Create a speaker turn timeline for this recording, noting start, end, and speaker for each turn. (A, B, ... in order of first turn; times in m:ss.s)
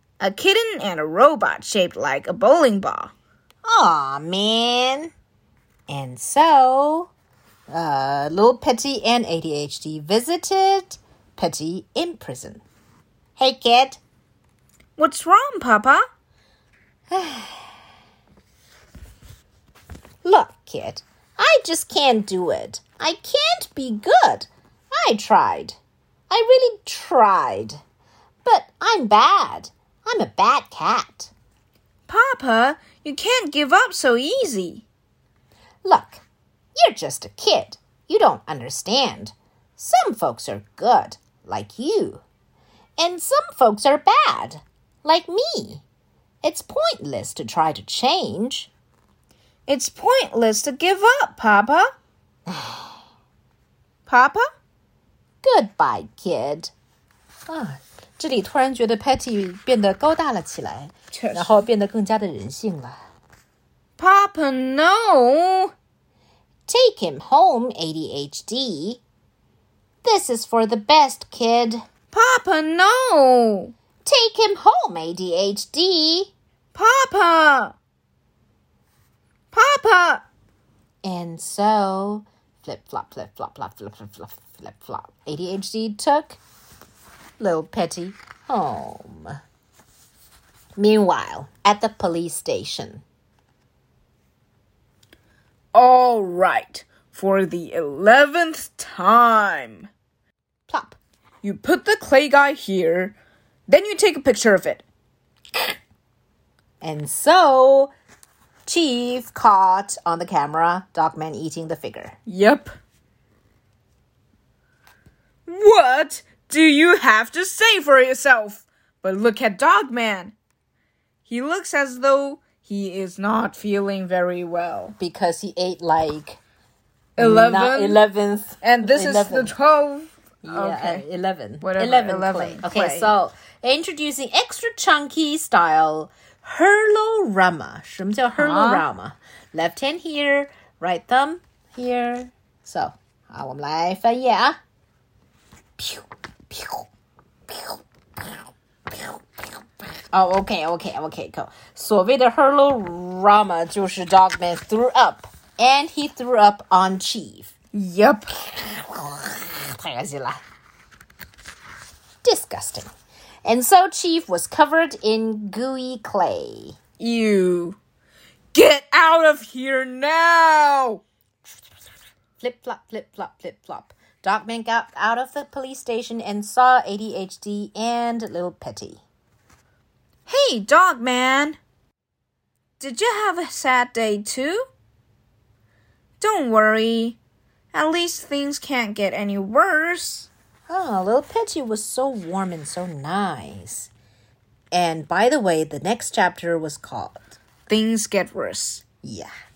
0:00.2-0:03.1 A
0:03.6-0:05.1 B
0:05.9-0:07.1 B
0:07.7-0:12.6 B
0:13.4-0:14.0 B
0:15.0-0:16.0 A
0:17.1-0:17.7 B
0:20.2-0:25.8 B
0:26.3-0:27.8 B
0:28.4-0:31.3 B
0:32.1-0:34.8 A
0:35.8-0:36.2 B
0:36.8-0:42.2 B
0:43.0-0:45.8 B
0:46.4-0:48.7 B
0:49.7-0:51.9 A
0:52.5-0:52.9 B
0:54.1-0:54.4 A
0:55.4-0:56.7 B
0:57.5-1:03.0 B
1:01.1-1:01.6 A
1:04.0-1:05.7 A
1:06.7-1:09.0 B
1:10.0-1:11.8 B
1:12.1-1:13.7 A
1:14.0-1:16.3 B
1:16.7-1:17.7 A
1:19.5-1:20.2 A
1:21.0-1:26.4 B
1:27.4-1:29.4 B
1:30.8-1:33.0 B
1:35.7-1:39.9 A
1:40.7-1:41.0 B
1:41.4-1:43.2 A
1:43.7-1:44.8 A
1:46.8-1:47.9 B
1:48.6-1:52.2 B
1:52.3-1:52.7 A
1:55.5-2:00.3 A
2:01.3-2:05.0 A
2:05.0-2:06.4 B
2:07.2-2:08.0 A
2:07.2-2:09.5 B
2:08.6-2:11.0 A
2:10.4-2:24.6 B
2:11.6-2:13.1 A
2:18.3-2:18.8 A
2:25.8-2:26.9 B
2:27.5-2:27.8 B
2:30.1-2:37.5 B
2:37.7-2:38.3 A
2:38.3-2:40.4 B
2:42.2-2:42.9 B
2:43.4-2:46.8 B
2:47.0-2:47.8 A
2:48.5-2:51.0 A
2:52.4-2:59.0 B
3:00.3-3:01.6 A
3:02.8-3:04.7 A
3:06.2-3:07.2 A
3:07.7-3:10.3 A
3:10.7-3:13.9 B
3:14.7-3:17.4 B
3:17.7-3:18.8 A
3:19.0-3:19.3 B